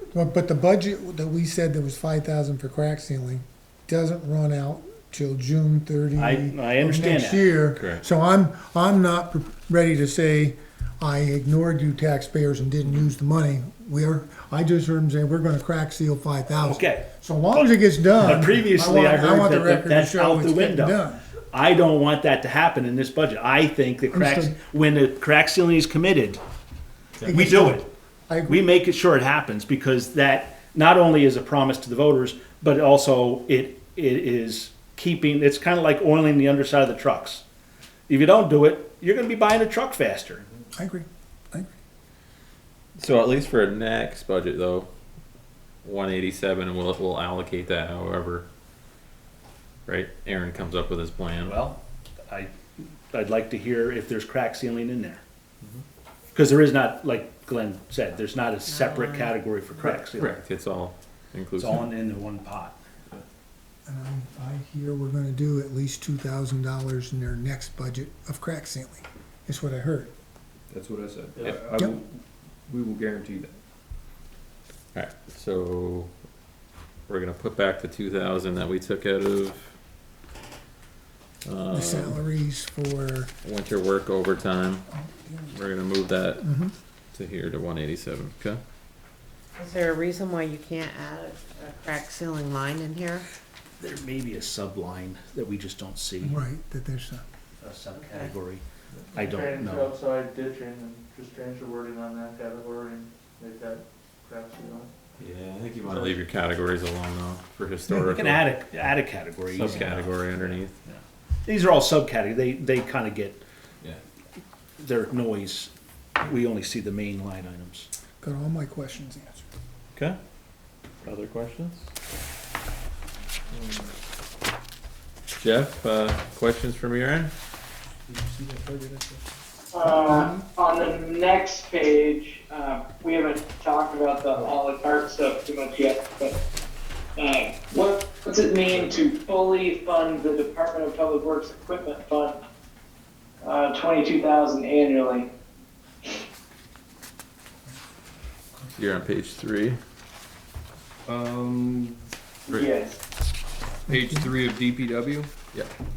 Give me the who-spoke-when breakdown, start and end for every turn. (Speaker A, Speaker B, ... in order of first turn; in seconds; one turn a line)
Speaker A: 0.1-21.2
Speaker B: 6.2-7.5
Speaker C: 7.8-8.0
Speaker B: 16.6-17.7
Speaker B: 18.2-21.0
Speaker B: 21.5-26.4
Speaker A: 24.1-24.6
Speaker A: 27.2-28.6
Speaker B: 27.2-27.9
Speaker B: 28.5-37.4
Speaker B: 38.1-40.5
Speaker A: 40.8-41.7
Speaker C: 43.0-44.9
Speaker C: 45.8-48.5
Speaker C: 49.9-51.6
Speaker B: 51.4-55.2
Speaker B: 56.3-60.4
Speaker D: 58.7-59.4
Speaker C: 59.8-61.9
Speaker B: 61.6-62.8
Speaker A: 63.9-70.1
Speaker E: 70.7-73.6
Speaker C: 74.9-76.1
Speaker C: 77.1-79.7
Speaker C: 81.5-82.2
Speaker A: 81.7-83.3
Speaker C: 83.4-84.9
Speaker A: 85.0-85.5
Speaker C: 85.5-86.5
Speaker A: 86.4-86.7
Speaker C: 87.1-88.6
Speaker D: 89.6-93.3
Speaker B: 93.8-96.4
Speaker A: 96.2-97.2
Speaker B: 97.6-98.6
Speaker D: 98.0-98.3
Speaker F: 99.1-104.9
Speaker B: 99.2-99.9
Speaker C: 105.2-108.5
Speaker B: 107.9-113.4
Speaker C: 109.5-110.8
Speaker B: 114.8-117.9
Speaker A: 118.2-119.5
Speaker C: 121.0-121.9
Speaker C: 125.4-127.3
Speaker E: 128.2-129.2
Speaker G: 129.7-136.4
Speaker G: 137.2-142.4
Speaker G: 143.4-145.3
Speaker C: 148.7-149.8
Speaker E: 151.1-152.1
Speaker C: 152.5-152.8
Speaker G: 152.5-153.0
Speaker E: 153.9-155.3
Speaker A: 153.9-154.2